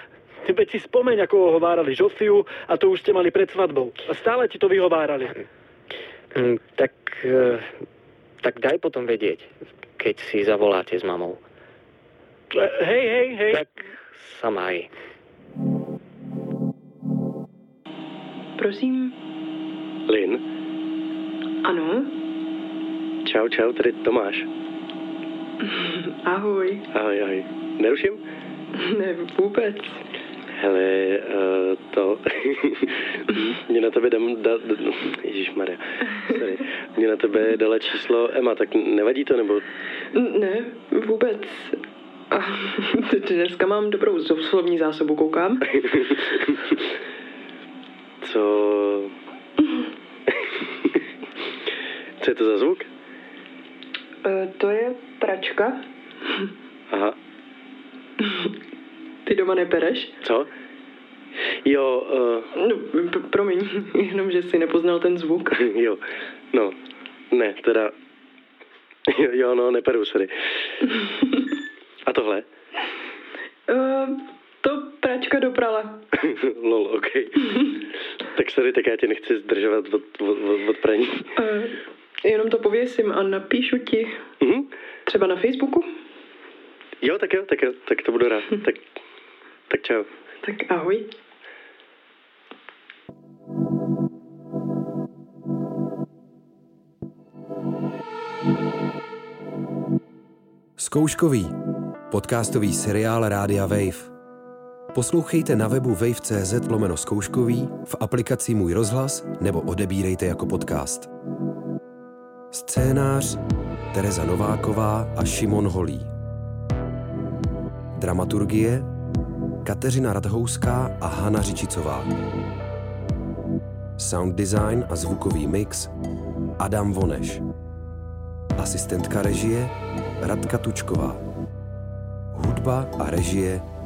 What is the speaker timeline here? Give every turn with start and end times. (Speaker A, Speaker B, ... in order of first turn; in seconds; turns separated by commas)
Speaker A: 0.4-5.3, Speaker B: 6.3-7.8, Speaker B: 8.4-11.4, Speaker A: 12.5-13.6, Speaker B: 13.5-14.9, Speaker C: 18.6-19.1, Speaker D: 20.1-20.4, Speaker C: 21.6-22.1, Speaker D: 23.2-24.5, Speaker C: 25.6-26.8, Speaker D: 26.9-28.2, Speaker C: 28.7-30.0, Speaker D: 30.6-39.6, Speaker C: 40.1-45.6, Speaker D: 48.2-49.1, Speaker D: 52.2-52.9, Speaker C: 54.2-55.8, Speaker D: 56.9-57.1, Speaker C: 59.2-60.1, Speaker D: 60.2-60.5, Speaker D: 61.6-62.5, Speaker C: 62.5-65.5, Speaker D: 65.5-66.0, Speaker D: 67.3-67.9, Speaker D: 69.1-70.3, Speaker D: 72.0-72.4, Speaker C: 73.7-76.0, Speaker D: 76.2-77.3, Speaker D: 78.3-81.2, Speaker C: 81.3-84.2, Speaker D: 84.4-84.7, Speaker C: 85.0-85.9, Speaker D: 87.0-88.8, Speaker D: 89.7-90.1, Speaker C: 90.4-91.1, Speaker E: 100.8-101.5, Speaker E: 102.1-104.1, Speaker E: 104.9-111.1, Speaker E: 112.5-116.1, Speaker E: 117.9-118.9, Speaker E: 119.6-122.1, Speaker E: 124.0-125.9, Speaker E: 126.6-127.4, Speaker E: 128.6-131.2, Speaker E: 132.3-133.6